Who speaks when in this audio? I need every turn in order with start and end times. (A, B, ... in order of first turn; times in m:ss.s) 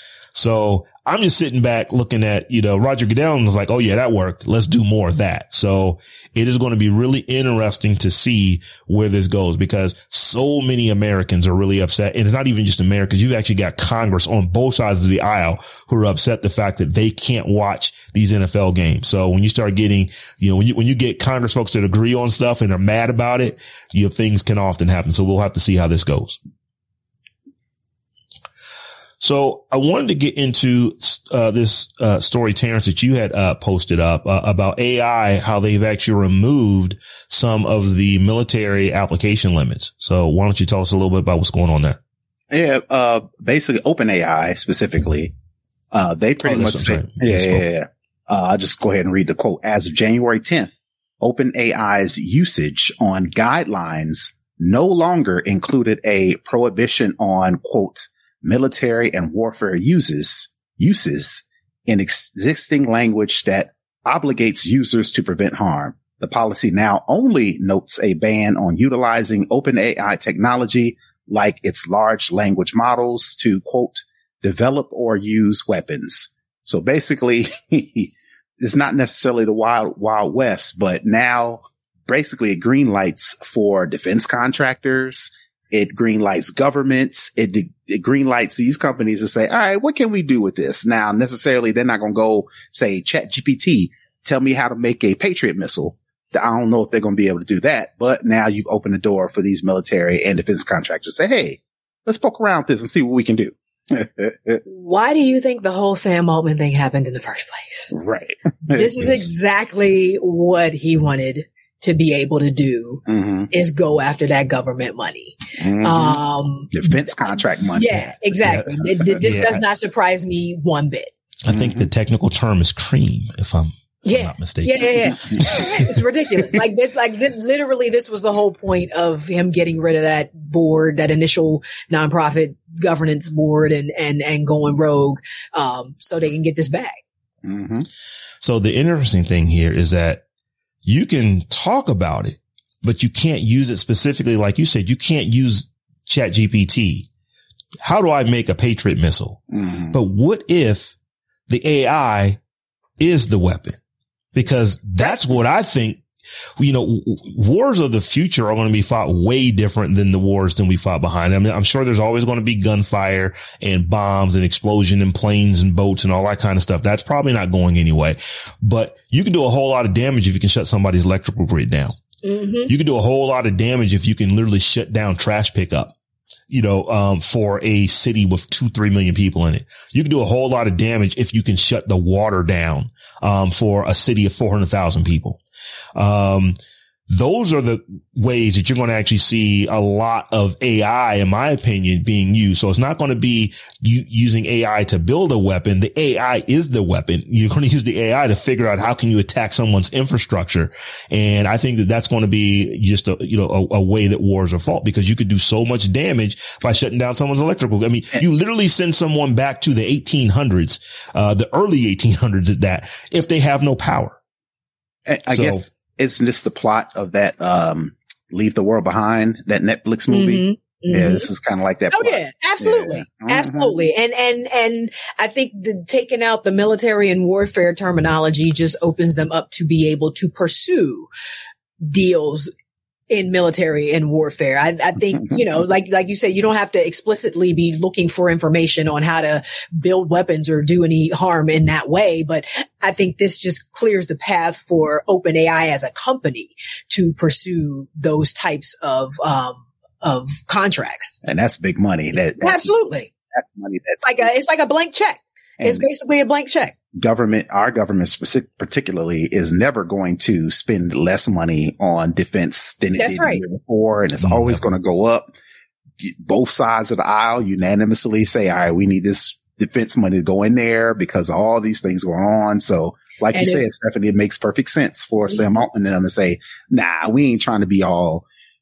0:00.4-0:26.4 A
0:29.2-0:42.0 A
0:42.5-0:45.3 B
0:45.9-1:44.6 B
0:46.4-0:47.6 A
1:44.7-1:47.9 C
1:47.9-1:49.2 B
1:48.7-2:01.1 C
1:53.1-1:53.5 B
1:55.6-1:56.2 B
1:56.7-1:58.8 B
1:59.2-1:59.6 A
2:01.4-2:05.9 A
2:01.5-2:01.9 B
2:04.1-2:17.0 C
2:17.4-2:17.9 B
2:18.4-2:20.2 A
2:20.8-2:27.1 A
2:27.8-2:31.0 A
2:29.5-2:30.0 B
2:31.5-2:32.4 A
2:33.0-2:33.8 A
2:34.4-2:36.0 A
2:36.6-2:52.0 A
2:52.2-2:52.7 C
2:52.7-2:56.0 A
2:56.5-3:05.4 A
3:06.0-3:06.6 A
3:07.1-3:34.2 A
3:35.1-3:43.8 B
3:35.3-3:35.6 A
3:40.1-3:41.3 C
3:41.9-3:51.1 C
3:51.8-3:52.5 C
3:53.1-4:11.2 C
4:11.2-4:12.7 B
4:12.4-4:13.1 C
4:13.3-4:14.0 B
4:14.0-4:16.8 C
4:15.6-4:15.9 B
4:16.9-4:25.3 B
4:23.0-4:23.4 C
4:24.2-4:24.7 A
4:26.0-4:38.3 B
4:33.3-4:33.6 C
4:35.3-4:35.6 C